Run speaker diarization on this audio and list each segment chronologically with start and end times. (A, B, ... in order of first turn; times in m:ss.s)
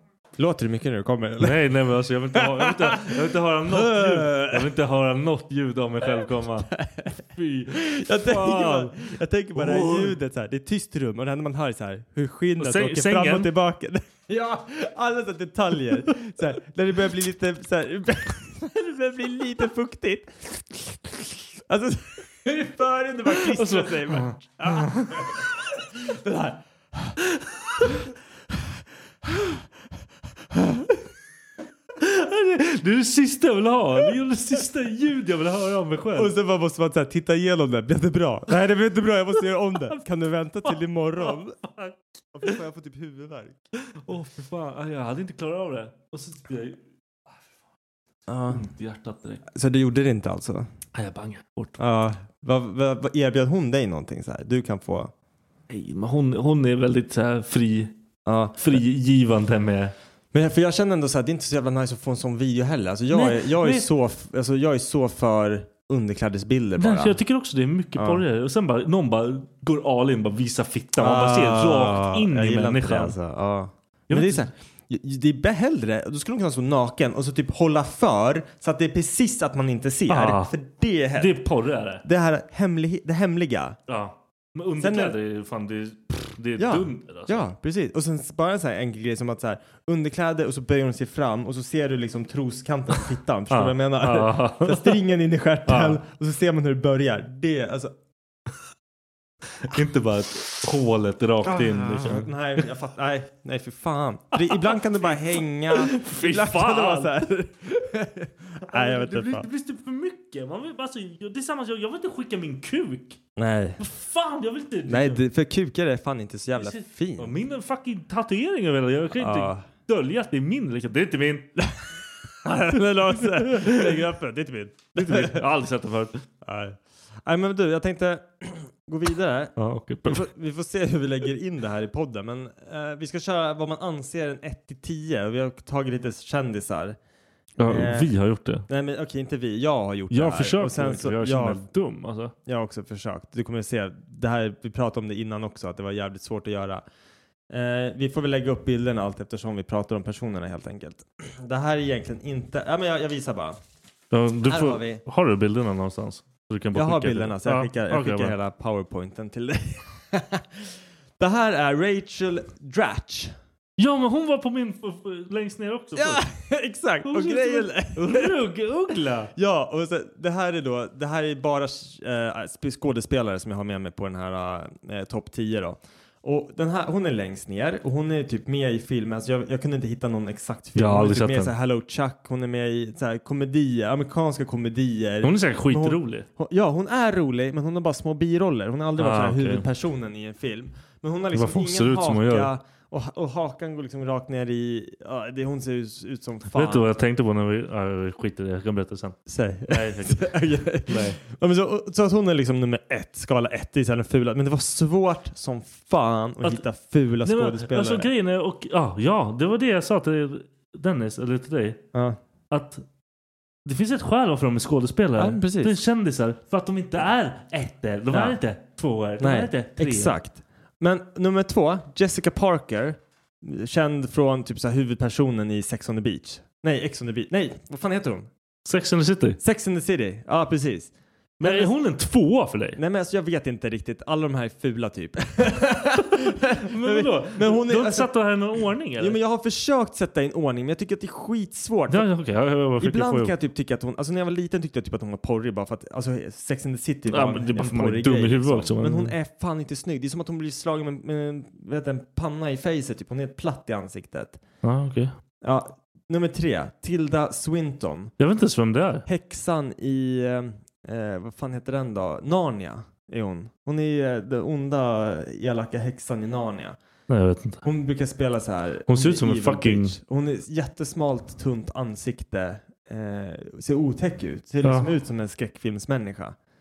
0:00.4-0:01.6 A
0:01.4-0:06.7 B
0:02.3-0:03.1 A
0:03.7-0:04.7 A
0:06.7-0:21.1 A
0:07.2-0:09.0 B
0:09.5-0:10.2 B
0:12.6-0:13.5 B
0:21.6-0:27.2 A
0:23.3-0:25.5 B
0:27.3-0:27.8 B
0:29.3-0:29.6 A
0:30.5-0:30.9 A
0:32.0-0:36.3 B
0:36.1-0:41.6 A
0:40.6-0:42.0 B
0:42.3-0:43.6 A
0:43.9-0:47.4 B
0:48.3-0:48.6 A
0:48.5-0:49.4 B
0:49.5-0:50.7 A
0:50.9-0:51.8 B
0:51.8-0:55.1 A
0:55.7-0:58.0 B
0:58.2-0:58.8 A
0:58.6-0:59.9 B
1:00.3-1:07.2 A
1:03.1-1:03.9 B
1:06.8-1:13.2 B
1:08.0-1:08.2 A
1:11.0-1:21.4 A
1:14.1-1:14.5 B
1:20.1-1:20.6 B
1:21.2-1:22.0 B
1:22.0-1:23.8 A
1:23.9-1:27.4 B
1:24.8-1:25.2 A
1:26.6-1:37.9 A
1:33.5-1:35.0 B
1:35.7-1:36.0 B
1:39.6-1:42.3 B
1:41.4-1:49.5 A
1:44.3-1:47.1 B
1:48.7-1:53.2 B
1:53.4-1:53.8 A
1:53.8-1:55.2 B
1:54.9-1:57.4 A
1:56.6-2:01.5 B
1:59.2-1:59.7 A
2:02.4-2:05.4 A
2:03.1-2:04.0 B
2:05.0-2:06.2 B
2:06.4-2:17.0 A
2:09.6-2:10.3 B
2:17.6-2:18.7 B
2:17.6-2:18.1 A
2:18.7-2:21.6 A
2:20.1-2:22.3 B
2:22.4-2:26.8 A
2:27.5-2:33.6 A
2:34.1-2:38.3 B
2:34.4-2:35.0 A
2:36.7-2:43.3 A
2:43.8-2:46.3 B
2:46.0-2:48.4 A
2:47.0-2:49.3 B
2:49.3-3:17.0 A
3:00.7-3:01.5 B
3:05.2-3:06.2 B
3:09.0-3:09.6 B
3:11.3-3:12.5 B
3:16.5-3:21.2 B
3:19.3-3:28.1 A
3:27.2-3:31.8 B
3:31.9-3:32.2 A
3:32.5-3:32.8 B
3:33.6-3:40.1 B
3:35.2-3:35.8 A
3:38.1-3:38.4 A
3:39.2-3:48.3 A
3:48.6-3:49.4 B
3:49.4-3:51.7 A
3:51.4-3:52.8 B
3:52.8-3:58.1 A
3:56.1-3:59.2 B
3:59.0-4:02.1 A
4:01.9-4:03.3 B
4:02.8-4:14.4 A
4:07.1-4:09.1 B
4:14.6-4:15.1 B
4:15.4-4:18.1 A
4:18.2-4:19.1 B
4:19.1-4:26.8 A
4:27.1-4:27.6 B
4:27.6-4:36.4 A
4:28.9-4:30.0 B
4:34.6-4:34.9 B